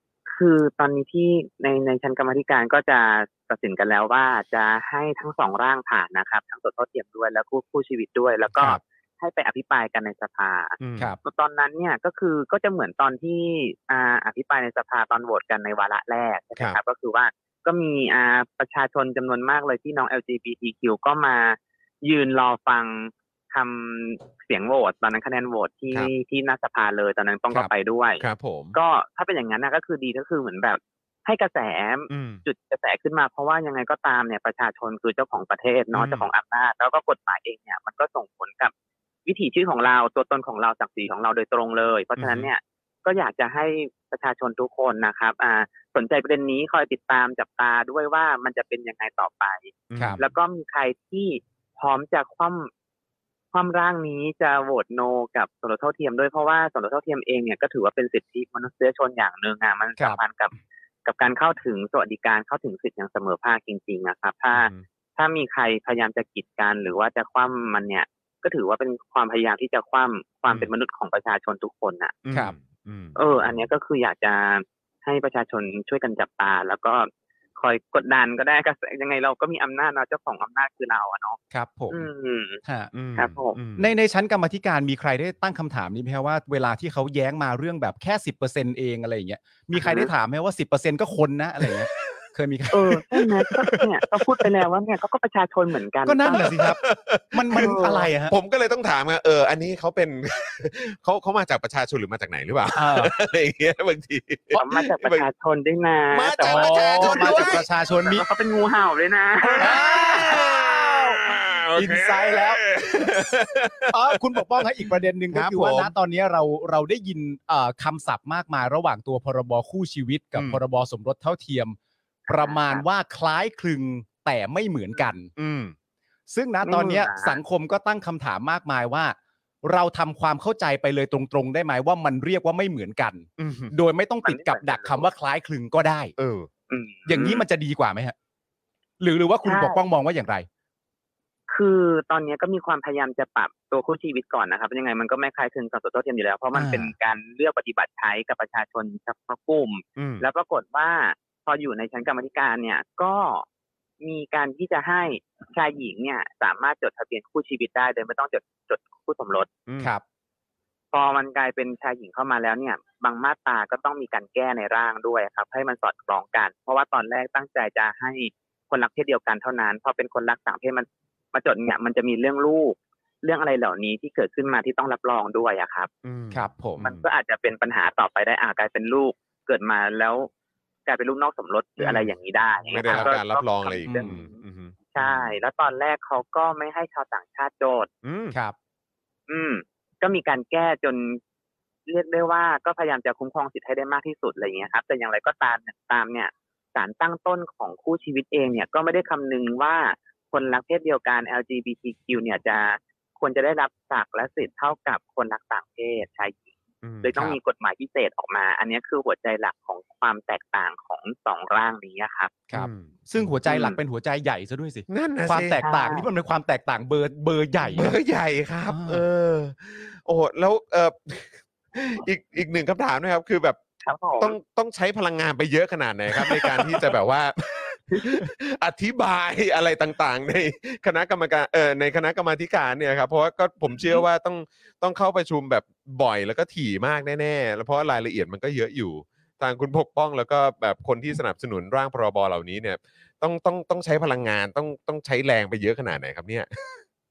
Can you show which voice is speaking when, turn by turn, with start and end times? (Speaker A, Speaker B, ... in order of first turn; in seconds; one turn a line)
Speaker A: 0.3-28.2
Speaker B: 10.8-11.1
Speaker B: 28.2-28.8
Speaker A: 28.7-38.7
Speaker B: 32.1-32.4
Speaker B: 35.9-36.3
Speaker A: 39.2-52.7
Speaker B: 42.2-42.5
Speaker B: 49.9-50.3
Speaker C: 49.9-50.2
Speaker A: 53.5-60.5
Speaker A: 61.0-72.1
Speaker B: 64.5-64.8
Speaker B: 72.2-73.7
Speaker A: 73.2-81.4
Speaker C: 81.5-82.0
Speaker A: 81.9-82.6
Speaker C: 82.6-82.9
Speaker B: 82.9-83.9
Speaker A: 83.1-83.6
Speaker C: 83.8-93.0
Speaker A: 89.8-90.1
Speaker A: 92.7-96.6
Speaker B: 93.1-94.6
Speaker C: 96.0-96.8
Speaker B: 96.4-105.3
Speaker C: 97.3-98.3
Speaker A: 97.5-98.1
Speaker C: 102.7-103.1
Speaker A: 104.5-109.8
Speaker B: 106.1-107.7
Speaker C: 106.4-108.2
Speaker B: 109.4-114.2
Speaker C: 109.6-111.2
Speaker C: 111.7-112.6
Speaker C: 113.9-125.3
Speaker B: 115.3-115.9
Speaker B: 120.3-120.6
Speaker A: 122.3-122.8
Speaker B: 125.3-125.7
Speaker C: 126.3-136.1
Speaker A: 126.6-127.4
Speaker B: 133.4-133.7
Speaker A: 134.2-135.1
Speaker B: 136.2-136.5
Speaker A: 136.7-137.4
Speaker C: 137.1-138.1
Speaker C: 139.0-140.5
Speaker A: 139.4-139.8
Speaker A: 141.5-153.4
Speaker C: 146.5-146.9
Speaker B: 149.9-150.2
Speaker A: 154.0-159.5
Speaker A: 160.9-175.9
Speaker B: 176.0-177.0
Speaker C: 176.3-176.9
Speaker A: 176.8-180.3
Speaker A: 180.8-184.3
Speaker B: 181.8-185.4
Speaker C: 182.8-183.1
Speaker C: 183.8-184.2
Speaker A: 184.9-187.9
Speaker B: 188.0-188.3
Speaker A: 189.3-191.2
Speaker A: 191.9-206.4
Speaker B: 206.8-207.4
Speaker A: 207.0-212.3
Speaker C: 212.5-218.0
Speaker B: 212.5-213.8
Speaker B: 214.9-215.6
Speaker A: 215.6-216.1
Speaker B: 217.6-223.6
Speaker C: 218.7-219.0
Speaker A: 223.8-224.3
Speaker B: 224.2-246.8
Speaker A: 233.8-234.0